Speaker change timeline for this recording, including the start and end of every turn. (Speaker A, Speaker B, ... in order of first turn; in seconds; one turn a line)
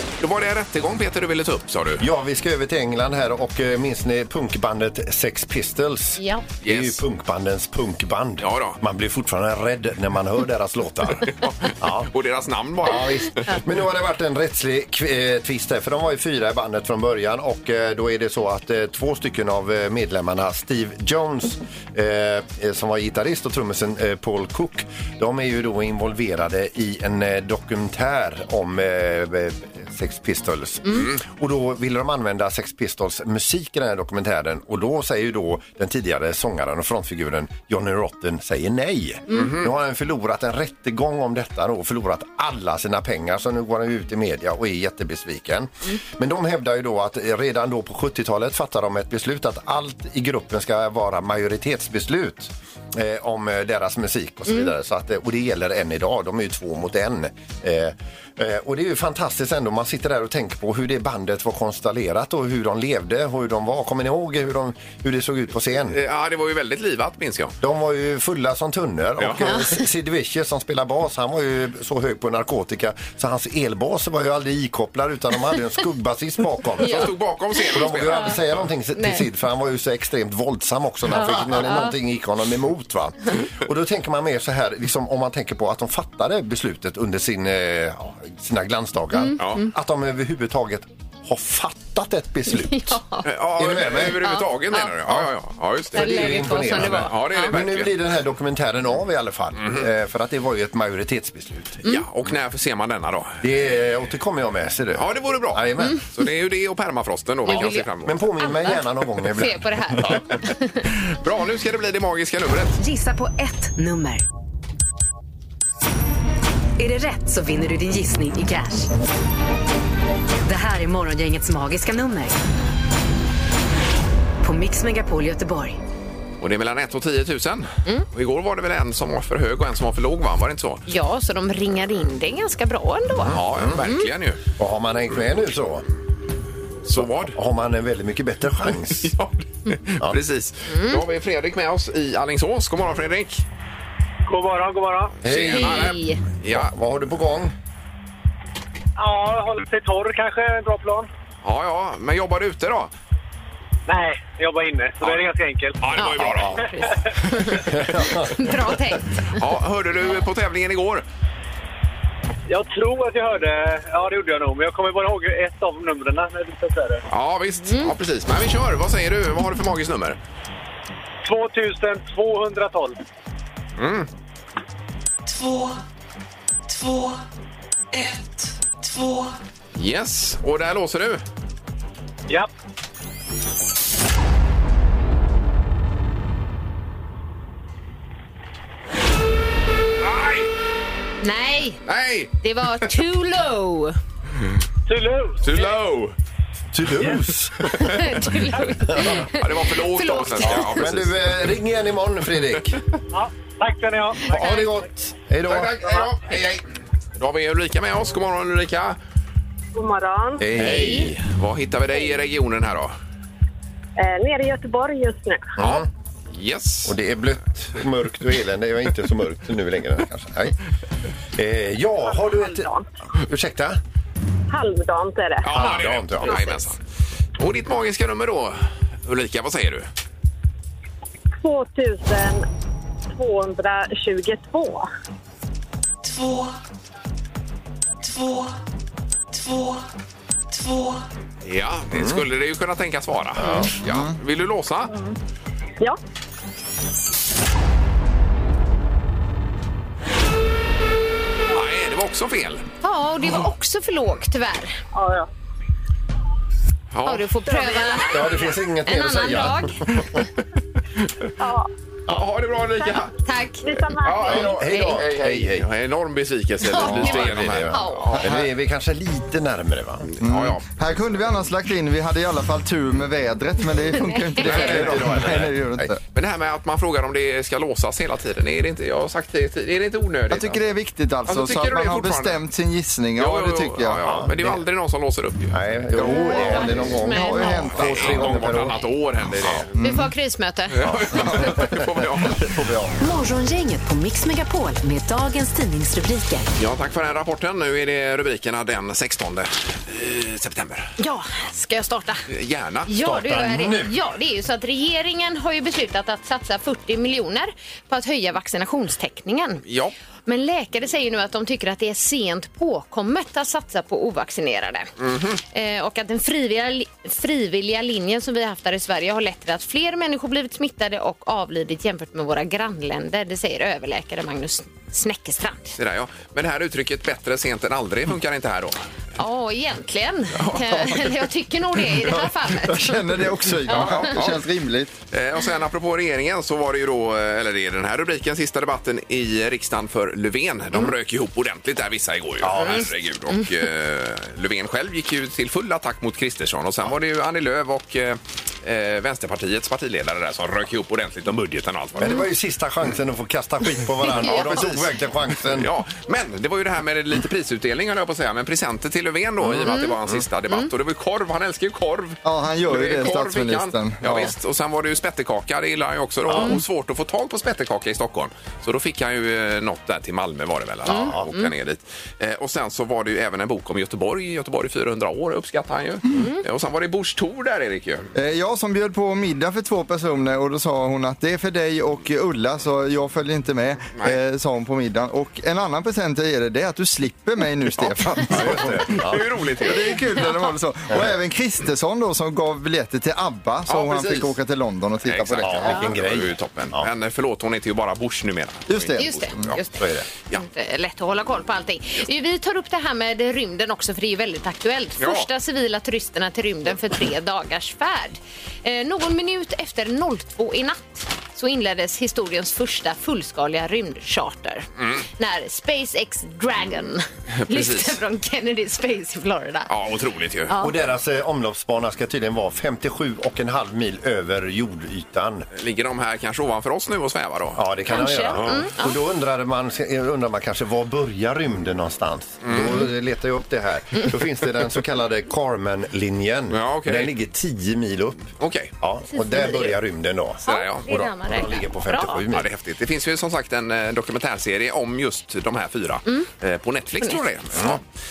Speaker A: 0.2-2.0
Speaker B: 2.0-12.1
Speaker C: 6.2-6.5
Speaker A: 6.6-7.0
Speaker A: 8.4-8.8
Speaker A: 11.4-13.5
Speaker B: 12.8-66.0
Speaker A: 39.3-39.7
Speaker A: 65.9-67.5
Speaker B: 67.6-93.0
Speaker A: 69.2-69.5
Speaker C: 69.4-69.8
Speaker A: 76.8-78.6
Speaker C: 76.8-78.3
Speaker C: 79.0-79.2
Speaker C: 81.1-81.9
Speaker C: 89.2-89.7
Speaker C: 92.6-93.3
Speaker A: 93.2-97.9
Speaker B: 93.5-94.4
Speaker C: 94.0-95.2
Speaker B: 95.9-101.8
Speaker C: 95.9-97.6
Speaker A: 101.8-103.4
Speaker B: 103.4-106.0
Speaker A: 105.0-108.2
Speaker C: 107.5-107.9
Speaker B: 107.5-110.2
Speaker C: 108.4-110.8
Speaker A: 110.9-112.8
Speaker D: 112.8-114.2
Speaker D: 116.8-118.9
Speaker D: 120.4-122.4
Speaker D: 124.4-125.8
Speaker A: 126.4-130.8
Speaker C: 130.9-134.1
Speaker A: 133.2-134.4
Speaker B: 133.3-133.8
Speaker B: 134.6-135.8
Speaker A: 136.8-137.4
Speaker B: 137.0-139.1
Speaker A: 138.9-143.4
Speaker C: 140.7-141.0
Speaker E: 144.3-145.2
Speaker A: 145.2-146.7
Speaker B: 145.2-147.5
Speaker C: 145.5-146.2
Speaker E: 149.0-151.1
Speaker A: 151.4-152.9
Speaker E: 153.9-156.5
Speaker A: 155.8-156.7
Speaker C: 156.0-159.2
Speaker B: 157.7-158.3
Speaker A: 159.4-161.1
Speaker E: 162.5-167.0
Speaker A: 167.1-170.2
Speaker C: 167.7-167.9
Speaker E: 171.2-173.0
Speaker A: 173.8-174.1
Speaker A: 179.8-181.2
Speaker A: 190.0-190.5
Speaker C: 191.2-191.8
Speaker A: 191.9-192.9
Speaker C: 192.4-194.0
Speaker E: 194.9-195.7
Speaker A: 195.4-196.2
Speaker B: 196.7-199.2
Speaker C: 197.8-200.7
Speaker A: 199.1-201.2
Speaker B: 200.4-202.8
Speaker E: 203.1-204.7
Speaker B: 204.3-206.0
Speaker A: 205.5-206.6
Speaker A: 207.2-209.0
Speaker F: 209.8-210.5
Speaker B: 210.4-211.2
Speaker A: 210.6-212.9
Speaker F: 214.0-215.5
Speaker B: 215.6-215.9
Speaker A: 215.6-217.0
Speaker B: 216.8-220.6
Speaker B: 221.3-223.8
Speaker F: 222.1-222.9
Speaker F: 224.5-225.7
Speaker A: 225.4-226.8
Speaker B: 225.5-226.4
Speaker A: 227.4-229.9
Speaker F: 231.4-232.4
Speaker F: 233.1-234.9
Speaker A: 241.4-244.9
Speaker B: 241.9-242.2
Speaker B: 243.4-243.7
Speaker C: 243.4-243.7
Speaker G: 243.8-244.2
Speaker F: 244.9-245.2
Speaker A: 251.5-252.7
Speaker C: 252.8-254.8
Speaker F: 254.9-255.3
Speaker A: 256.9-257.3
Speaker C: 257.1-258.2
Speaker F: 257.5-258.1
Speaker B: 258.1-260.0
Speaker C: 258.9-259.8
Speaker F: 261.4-261.7
Speaker A: 262.1-263.1
Speaker F: 262.8-263.1
Speaker C: 263.3-263.9
Speaker F: 263.6-264.5
Speaker A: 264.0-268.3
Speaker B: 264.3-265.7
Speaker C: 264.5-265.0
Speaker C: 266.6-268.3
Speaker B: 266.8-270.1
Speaker A: 270.1-270.6
Speaker G: 270.2-276.0
Speaker C: 274.3-274.9
Speaker A: 274.4-275.5
Speaker B: 274.4-275.8
Speaker A: 276.1-280.6
Speaker G: 280.3-284.0
Speaker A: 281.3-282.4
Speaker A: 283.2-286.8
Speaker B: 284.0-284.6
Speaker B: 285.5-289.6
Speaker C: 286.0-287.7
Speaker G: 287.0-288.4
Speaker A: 287.8-289.7
Speaker G: 289.8-290.1
Speaker C: 289.8-290.9
Speaker A: 290.7-292.7
Speaker B: 290.8-291.9
Speaker G: 292.6-292.9
Speaker D: 293.0-296.5
Speaker A: 296.6-300.9
Speaker C: 301.0-302.2
Speaker A: 302.3-302.9
Speaker C: 302.9-309.6
Speaker B: 302.9-303.9
Speaker A: 309.7-309.9
Speaker C: 310.3-314.9
Speaker A: 315.0-315.4
Speaker C: 315.5-325.8
Speaker A: 325.8-328.8
Speaker C: 329.2-334.2
Speaker A: 330.4-331.0
Speaker G: 332.1-334.9
Speaker A: 333.7-334.4
Speaker A: 335.1-352.2
Speaker B: 342.4-342.9
Speaker C: 342.6-342.9
Speaker B: 352.0-355.7
Speaker C: 354.1-354.7
Speaker A: 354.2-354.8
Speaker A: 355.5-378.1
Speaker C: 359.6-359.9
Speaker G: 362.2-364.3
Speaker B: 366.3-366.6
Speaker B: 370.9-371.3
Speaker C: 370.9-371.5
Speaker C: 376.1-376.4
Speaker G: 378.1-389.0
Speaker B: 388.2-389.3
Speaker A: 388.9-390.0
Speaker G: 389.6-395.7
Speaker A: 393.7-394.4
Speaker A: 395.1-399.6
Speaker B: 395.4-396.9
Speaker G: 398.7-399.5
Speaker C: 399.0-419.7
Speaker B: 399.8-400.1
Speaker A: 405.0-405.3
Speaker A: 417.4-418.0
Speaker A: 419.7-420.5
Speaker C: 420.5-420.7
Speaker B: 420.6-425.5
Speaker A: 425.6-427.6
Speaker B: 427.6-442.5
Speaker C: 427.9-429.0
Speaker A: 428.3-428.7
Speaker A: 432.4-432.9
Speaker A: 436.5-437.1
Speaker A: 438.4-438.7
Speaker C: 439.1-439.8
Speaker C: 440.4-442.2
Speaker A: 440.5-440.9
Speaker A: 442.3-447.8